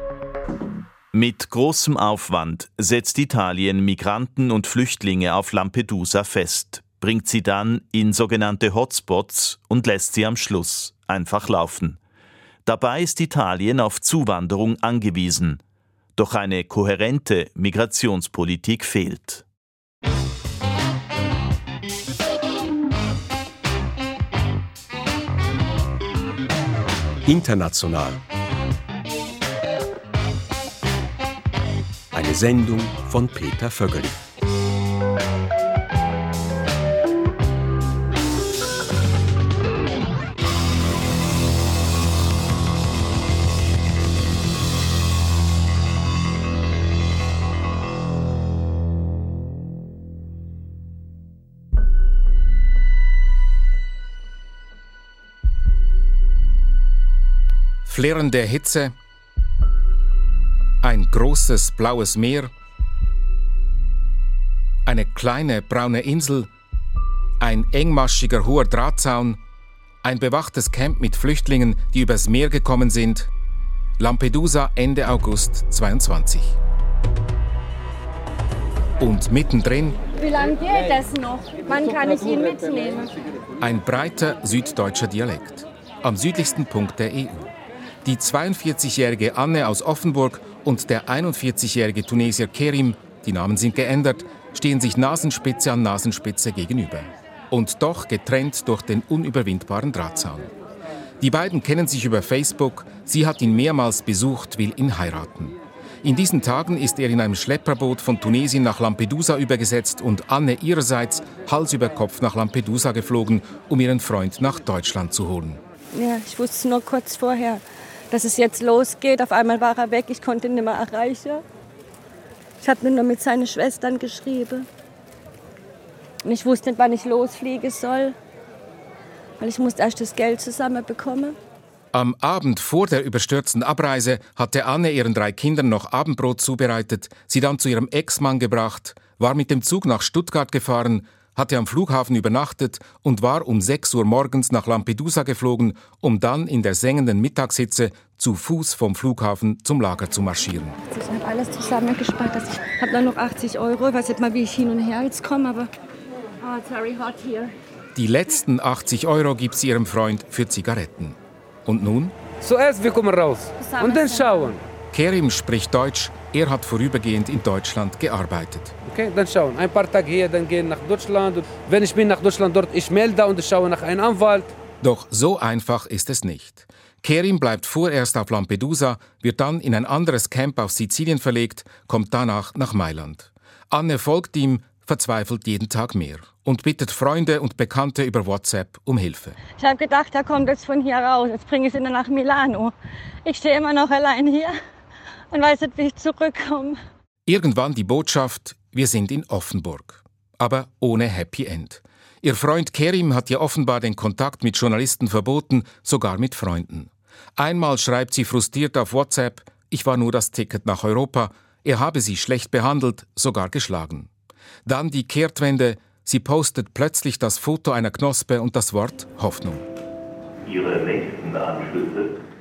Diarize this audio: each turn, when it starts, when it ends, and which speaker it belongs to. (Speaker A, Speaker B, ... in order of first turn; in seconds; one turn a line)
Speaker A: 1.1-12.0
Speaker A: 12.6-15.6
Speaker A: 16.1-19.4
Speaker B: 27.2-28.2
Speaker B: 32.1-34.2
Speaker C: 57.8-58.9
Speaker C: 60.8-62.5
Speaker C: 64.8-66.5
Speaker C: 67.4-69.4
Speaker C: 70.0-73.3
Speaker C: 74.0-76.5
Speaker C: 79.0-80.0
Speaker D: 80.1-83.1
Speaker C: 83.6-87.5
Speaker C: 88.0-100.5
Speaker C: 101.2-115.6
Speaker D: 115.9-121.4
Speaker D: 122.6-124.7
Speaker D: 126.2-128.1
Speaker D: 129.4-131.3
Speaker C: 131.9-150.8
Speaker D: 150.9-155.7
Speaker D: 156.4-157.5
Speaker C: 157.9-162.1
Speaker E: 162.4-164.6
Speaker D: 163.6-164.5
Speaker C: 164.9-168.7
Speaker E: 168.8-174.5
Speaker C: 174.8-189.4
Speaker D: 189.5-194.5
Speaker D: 195.3-196.8
Speaker C: 197.3-214.1
Speaker C: 214.6-219.6
Speaker A: 220.5-222.0